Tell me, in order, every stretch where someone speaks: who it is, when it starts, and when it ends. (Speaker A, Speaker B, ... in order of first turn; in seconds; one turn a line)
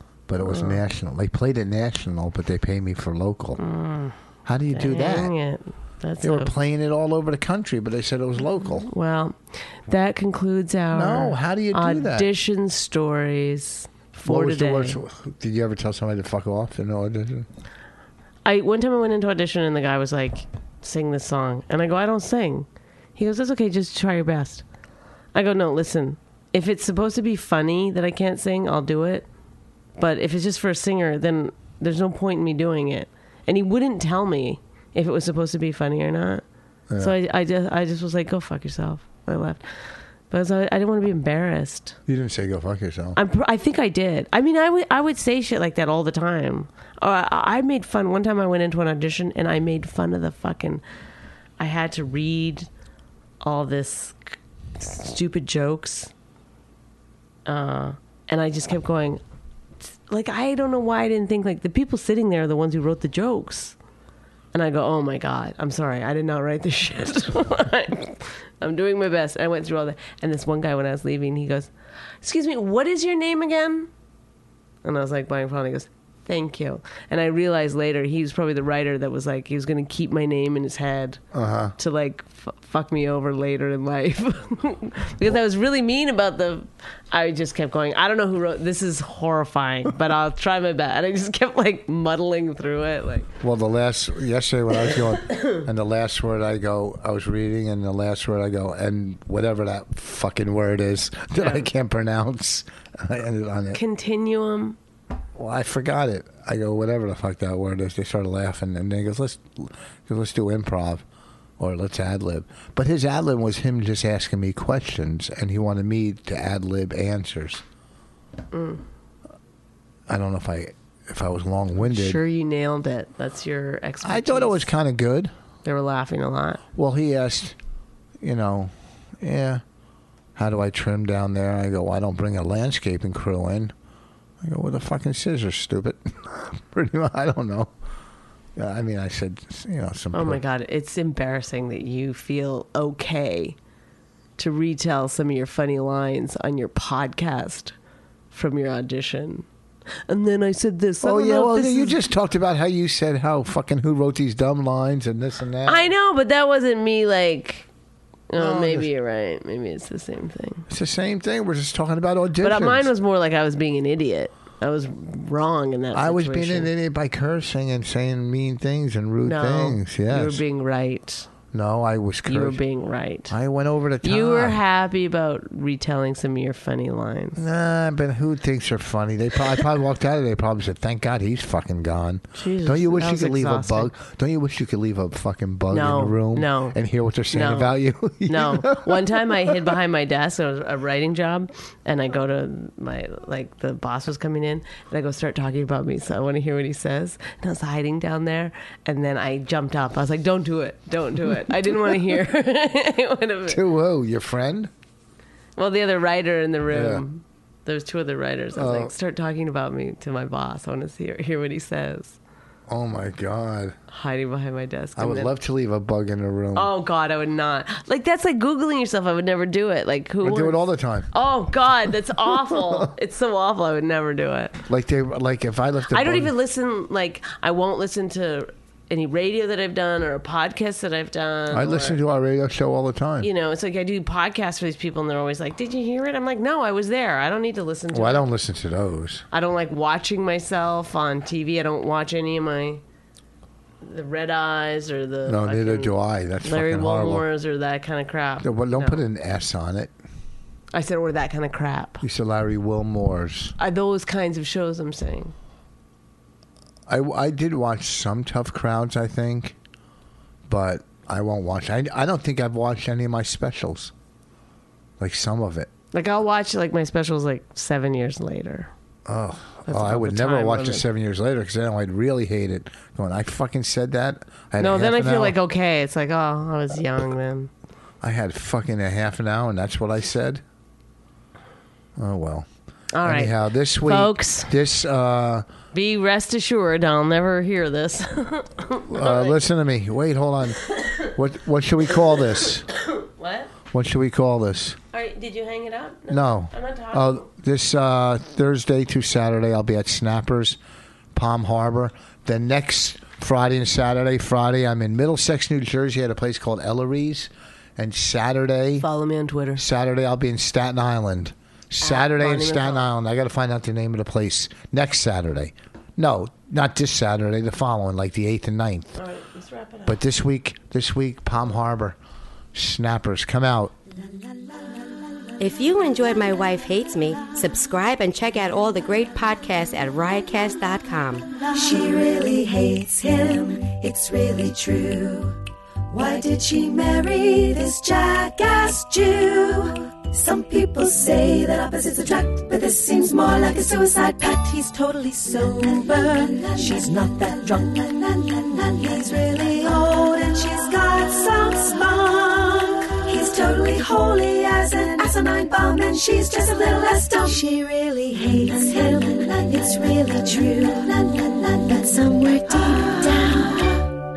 Speaker A: 0.3-3.6
Speaker B: 0.4-0.8
Speaker B: 3.6-4.1
Speaker A: 4.5-5.3
Speaker B: 4.7-6.5
Speaker A: 6.2-8.9
Speaker B: 8.7-15.0
Speaker A: 10.9-12.3
Speaker A: 14.2-17.5
Speaker B: 18.4-24.6
Speaker B: 25.3-29.3
Speaker B: 30.0-36.4
Speaker A: 36.9-37.1
Speaker B: 37.0-39.6
Speaker B: 40.3-42.0
Speaker A: 42.1-43.2
Speaker B: 43.1-50.8
Speaker B: 51.6-52.7
Speaker B: 53.4-56.1
Speaker B: 57.5-59.2
Speaker B: 59.8-63.8
Speaker B: 64.5-71.7
Speaker B: 72.2-73.9
Speaker B: 74.8-81.2
Speaker A: 81.3-81.7
Speaker B: 81.8-93.3
Speaker A: 93.4-103.8
Speaker B: 103.7-104.8
Speaker A: 105.3-111.0
Speaker A: 111.6-117.6
Speaker B: 118.5-118.8
Speaker A: 120.1-122.2
Speaker B: 121.8-124.7
Speaker A: 124.0-125.3
Speaker B: 125.6-126.6
Speaker A: 126.7-127.5
Speaker A: 128.2-129.6
Speaker A: 130.3-133.7
Speaker A: 134.4-137.7
Speaker A: 138.6-140.4
Speaker B: 140.1-143.6
Speaker B: 144.4-147.7
Speaker B: 148.3-149.4
Speaker B: 150.1-152.0
Speaker A: 151.0-155.9
Speaker B: 155.6-157.7
Speaker B: 158.3-160.7
Speaker A: 158.4-158.9
Speaker A: 160.7-162.9
Speaker B: 162.4-166.7
Speaker A: 165.9-170.4
Speaker B: 169.2-171.3
Speaker A: 171.5-172.6
Speaker B: 172.3-173.3
Speaker A: 173.3-174.6
Speaker B: 174.0-177.4
Speaker A: 177.3-189.8
Speaker B: 182.3-183.9
Speaker B: 185.7-186.8
Speaker B: 187.3-187.7
Speaker B: 188.2-203.6
Speaker A: 203.5-204.7
Speaker B: 205.6-212.2
Speaker A: 206.7-207.0
Speaker A: 208.5-208.9
Speaker A: 212.7-213.8
Speaker B: 213.9-215.3
Speaker A: 214.9-216.7
Speaker B: 216.6-224.6
Speaker A: 220.2-221.1
Speaker A: 224.7-226.3
Speaker B: 225.9-232.0
Speaker A: 231.5-233.3
Speaker B: 233.2-238.2
Speaker A: 237.9-239.2
Speaker B: 239.3-242.8
Speaker B: 243.8-249.0
Speaker A: 245.2-247.2
Speaker A: 248.4-249.9
Speaker B: 250.7-252.0
Speaker A: 252.0-253.5
Speaker B: 253.6-255.3
Speaker A: 256.9-259.6
Speaker A: 260.5-263.9
Speaker A: 265.0-265.7
Speaker B: 265.9-268.7
Speaker A: 269.1-275.4
Speaker B: 269.6-270.8
Speaker B: 274.6-277.5
Speaker A: 278.0-280.4
Speaker A: 282.0-282.5
Speaker B: 282.9-284.5
Speaker A: 283.0-285.5
Speaker B: 285.7-289.4
Speaker A: 288.9-292.7
Speaker B: 290.7-291.1
Speaker B: 292.7-293.5
Speaker A: 293.7-294.8
Speaker B: 294.9-297.2
Speaker A: 296.1-300.6
Speaker A: 301.1-308.9
Speaker B: 308.8-309.6
Speaker A: 309.6-319.0
Speaker B: 311.8-312.9
Speaker B: 318.9-320.0
Speaker A: 319.9-322.0
Speaker A: 322.5-323.7
Speaker C: 325.4-331.4
Speaker D: 331.4-335.4
Speaker D: 335.9-363.9